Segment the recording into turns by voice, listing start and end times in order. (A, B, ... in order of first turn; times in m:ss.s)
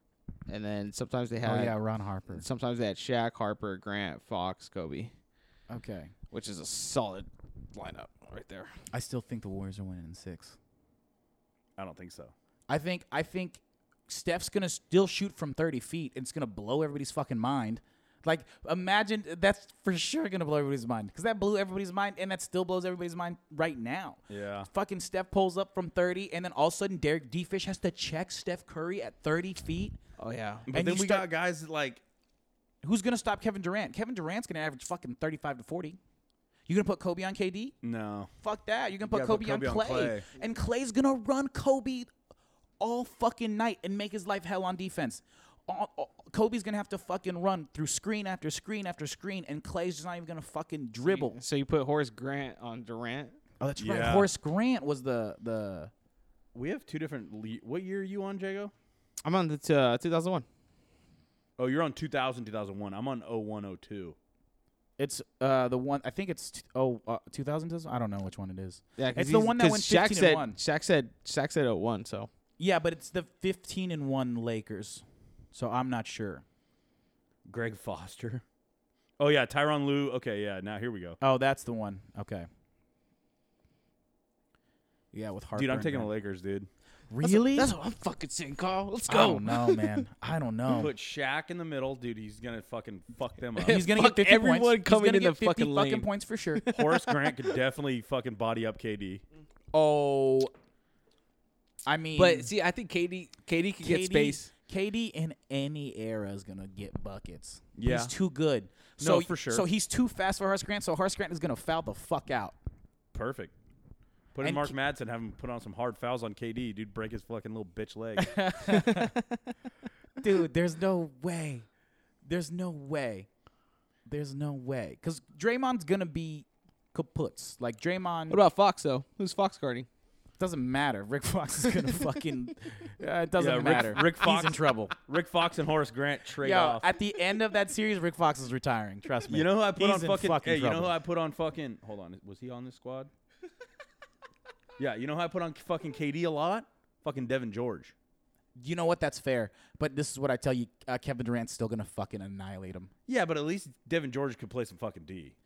0:00.5-0:01.8 A
0:01.4-0:02.4 B
0:02.3-0:05.1 A
0:05.7-0:06.1 B
0:06.3-0:08.7 A
0:08.9-0:10.6 B
0:11.8-0:12.3 C
0:12.7-0:30.0 B
0:24.3-0:24.7 C
0:30.2-0:30.7 A
0:30.7-0:32.0 C
0:30.7-0:31.3 B
0:32.8-0:36.0 B
0:36.7-0:37.8 B
0:37.8-0:38.3 C
0:38.4-0:42.1 B
0:39.0-0:40.3 C
0:42.8-0:51.4 B
0:51.0-0:53.4 A
0:53.6-0:55.9 B
0:53.8-0:54.3 C
0:56.5-0:58.7 C
0:59.2-1:00.5 A
1:01.6-1:04.2 C
1:05.0-1:10.6 B
1:09.0-1:12.3 A
1:12.6-1:16.4 B
1:17.5-1:18.4 C
1:19.2-1:21.2 C
1:21.2-1:22.5 B
1:25.1-1:26.1 B
1:25.6-1:26.7 C
1:27.1-1:27.7 B
1:27.2-1:30.0 A
1:29.1-1:30.9 B
1:30.7-1:33.8 C
1:33.6-1:37.4 A
1:33.7-1:36.7 B
1:36.7-1:39.2 C
1:39.7-1:40.5 B
1:41.9-1:42.5 B
1:42.2-1:44.5 A
1:43.8-1:52.6 B
1:47.8-1:48.1 C
1:49.0-1:49.6 C
1:53.1-1:53.5 C
1:54.3-1:58.4 C
1:54.4-1:54.7 B
1:58.2-1:59.2 B
1:58.7-1:59.1 A
2:00.2-2:01.7 B
2:02.2-2:03.3 B
2:04.1-2:08.4 B
2:08.3-2:09.9 A
2:10.4-2:15.0 B
2:13.4-2:16.9 C
2:16.4-2:21.0 B
2:19.3-2:23.1 C
2:24.8-2:27.9 C
2:28.6-2:32.9 B
2:33.1-2:35.4 C